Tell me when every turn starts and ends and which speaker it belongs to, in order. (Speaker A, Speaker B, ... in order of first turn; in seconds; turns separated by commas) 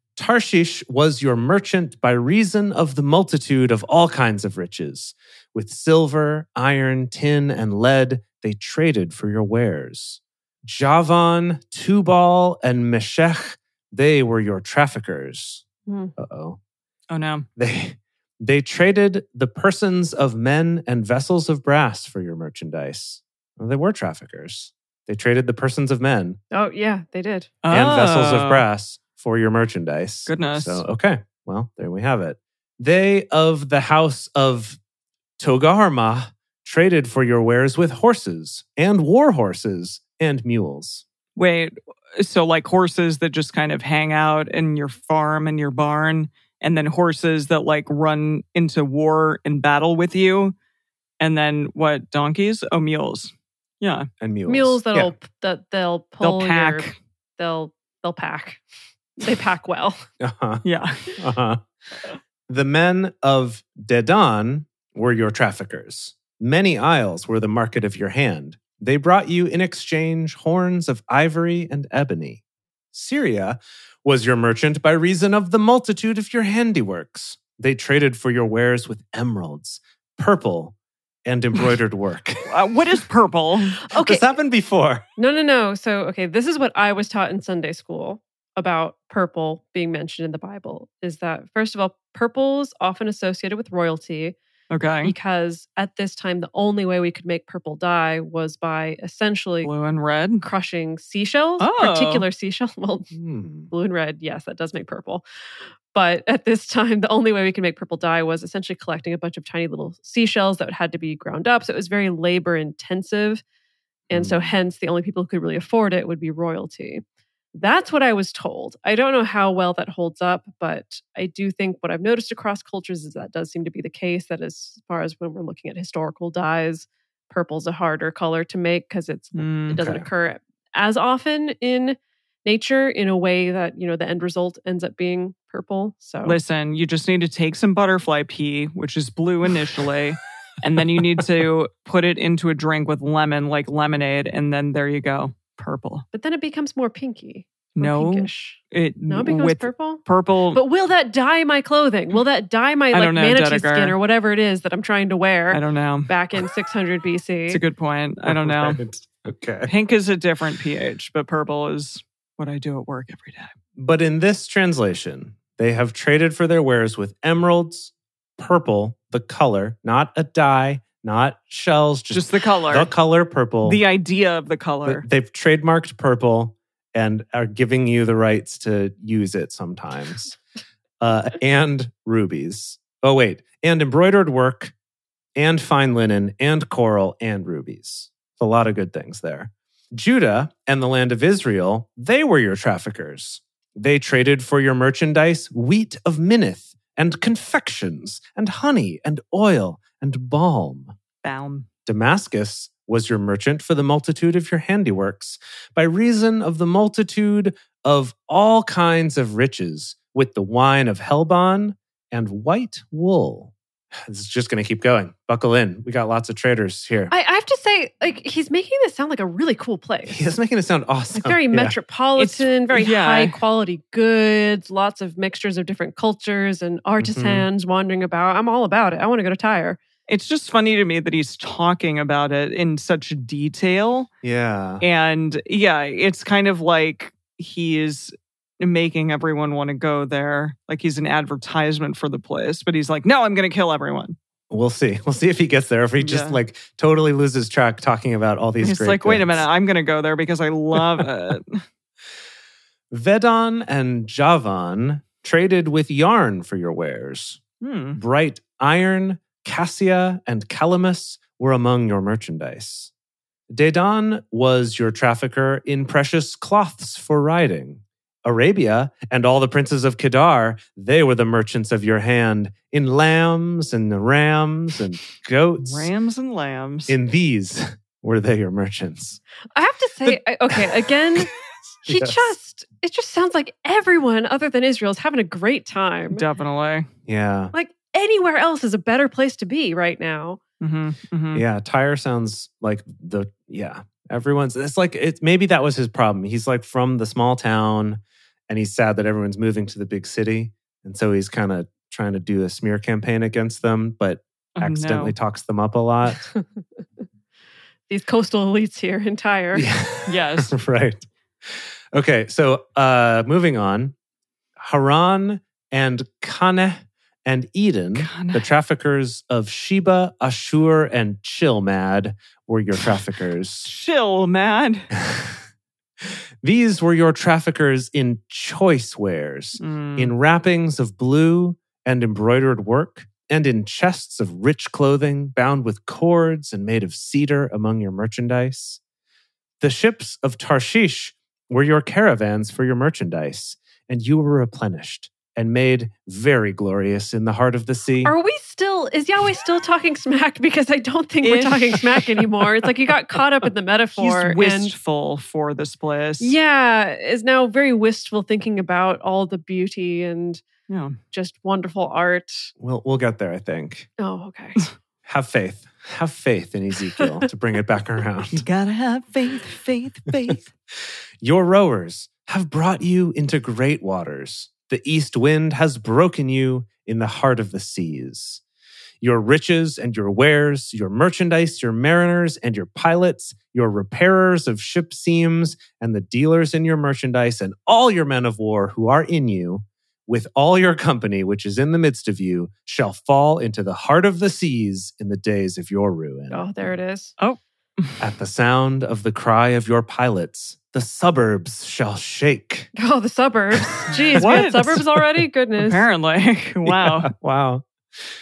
Speaker A: 0.1-15.6, Speaker B: 15.9-16.1, Speaker A: 16.2-16.6, Speaker C: 17.1-17.4, Speaker A: 17.6-26.4, Speaker B: 26.5-27.5, Speaker C: 27.6-28.6, Speaker A: 27.7-34.8, Speaker C: 30.3-30.8, Speaker A: 35.4-41.0, Speaker C: 41.4-50.5, Speaker C: 51.2-54.1, Speaker A: 54.2-55.1, Speaker B: 54.5-58.6, Speaker C: 56.2-57.0, Speaker B: 59.2-60.0, Speaker A: 60.2-60.6, Speaker C: 60.6-61.1, Speaker A: 61.2-61.6, Speaker A: 62.5-72.4, Speaker A: 72.9-82.5, Speaker C: 82.5-83.8, Speaker B: 83.9-84.3, Speaker A: 83.9-85.0, Speaker B: 85.2-94.3, Speaker C: 94.7-95.1, Speaker B: 95.0-99.7, Speaker C: 99.6-100.4, Speaker B: 100.4-103.1, Speaker C: 101.6-102.2, Speaker A: 103.1-103.7, Speaker B: 103.7-105.2, Speaker B: 105.9-113.4, Speaker A: 114.1-114.5, Speaker B: 114.1-117.0, Speaker B: 117.5-136.4, Speaker C: 129.3-129.8, Speaker A: 129.7-130.1, Speaker C: 136.2-146.0, Speaker B: 146.1-150.0, Speaker C: 147.8-150.6, Speaker B: 150.5-157.6, Speaker C: 152.9-154.0, Speaker C: 155.5-156.1, Speaker C: 157.5-158.8, Speaker A: 158.2-159.7, Speaker C: 159.7-163.5, Speaker A: 163.8-173.8, Speaker C: 172.1-172.9, Speaker C: 173.6-175.0, Speaker A: 174.8-180.4, Speaker A: 181.0-184.7, Speaker A: 185.3-200.9, Speaker C: 201.2-201.7, Speaker A: 201.8-217.1, Speaker B: 217.1-220.3, Speaker A: 220.1-221.8, Speaker B: 221.1-229.8, Speaker C: 222.2-223.3, Speaker A: 227.0-227.5, Speaker C: 230.1-234.1, Speaker A: 234.2-234.8, Speaker C: 234.8-244.2, Speaker A: 244.5-249.4, Speaker C: 246.0-246.4, Speaker C: 248.6-251.6, Speaker A: 252.9-257.4, Speaker C: 257.6-258.0, Speaker A: 257.9-262.9, Speaker A: 263.5-275.9, Speaker C: 275.6-276.9, Speaker A: 276.9-279.2, Speaker B: 279.5-281.3, Speaker A: 280.1-280.8, Speaker B: 281.8-286.2, Speaker A: 281.9-282.3, Speaker C: 286.1-286.9, Speaker A: 287.1-287.5, Speaker B: 287.5-290.4, Speaker C: 290.6-291.4, Speaker A: 291.3-306.2, Speaker C: 304.6-305.1, Speaker B: 307.9-309.7, Speaker A: 309.5-313.9, Speaker C: 310.1-310.5, Speaker A: 314.6-323.7, Speaker C: 317.9-318.4, Speaker C: 323.6-324.9, Speaker A: 324.9-325.4, Speaker A: 326.4-338.8, Speaker C: 329.6-330.1, Speaker A: 339.6-348.1, Speaker B: 348.0-354.7, Speaker C: 351.2-351.8, Speaker C: 353.9-356.4, Speaker B: 356.2-360.4, Speaker C: 360.7-361.0, Speaker B: 361.1-362.5, Speaker A: 362.6-363.9, Speaker B: 364.0-364.6, Speaker A: 365.0-368.5, Speaker C: 368.3-370.4, Speaker A: 371.2-378.4, Speaker A: 379.0-396.4, Speaker B: 396.3-397.1, Speaker C: 397.2-398.0, Speaker A: 398.0-402.7, Speaker B: 402.8-405.8, Speaker A: 403.5-405.0, Speaker C: 404.1-404.8, Speaker C: 405.6-407.1, Speaker A: 406.6-407.6